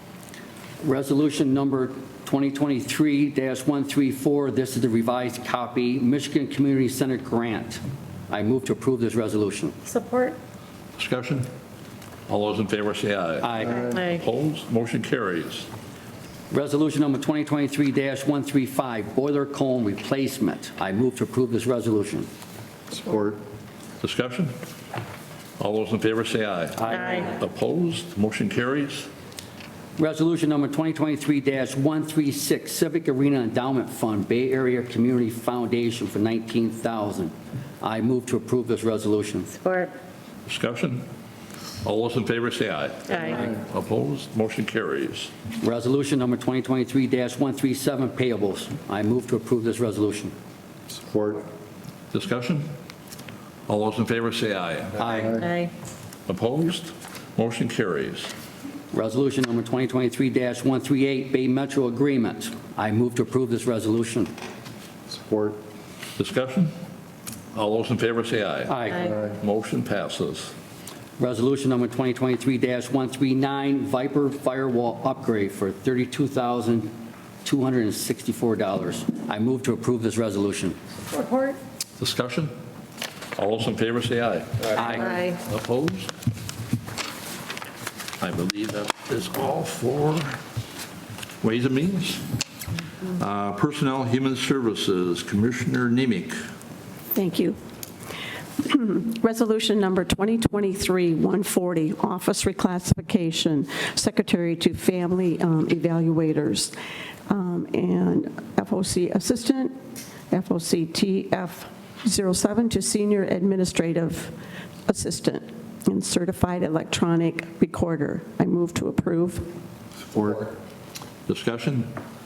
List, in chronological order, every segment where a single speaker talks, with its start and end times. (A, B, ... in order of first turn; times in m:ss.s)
0:00.8-0:09.8 A
0:09.9-0:10.4 B
0:11.0-0:11.5 C
0:12.3-0:15.7 C
0:13.4-0:13.8 A
0:13.6-0:14.1 D
0:13.8-0:14.2 B
0:16.5-0:22.3 A
0:22.9-0:23.4 D
0:24.0-0:24.6 C
0:25.6-0:29.1 C
0:26.8-0:27.4 A
0:30.0-0:39.6 A
0:39.6-0:39.9 B
0:40.5-0:41.0 C
0:41.8-0:45.3 C
0:45.6-0:50.3 A
0:51.0-0:51.4 D
0:52.1-0:52.7 C
0:53.7-0:55.0 C
0:55.0-0:55.4 A
0:55.2-0:55.4 D
0:55.3-0:55.7 B
0:56.3-0:58.3 C
0:58.9-1:04.3 A
1:05.1-1:05.6 D
1:06.2-1:06.7 C
1:07.5-1:10.5 C
1:08.7-1:09.1 A
1:09.0-1:09.3 D
1:11.2-1:16.9 A
1:17.4-1:20.8 A
1:21.1-1:21.6 B
1:22.0-1:22.5 C
1:23.4-1:26.1 C
1:24.8-1:25.2 A
1:24.9-1:25.4 B
1:28.2-1:30.4 C
1:31.4-1:32.3 C
1:33.1-1:36.4 C
1:37.2-1:37.6 E
1:38.6-1:46.8 E
1:47.3-1:49.7 E
1:50.3-1:54.3 E
1:54.9-1:59.5 E
2:00.0-2:00.5 D
2:01.3-2:01.9 C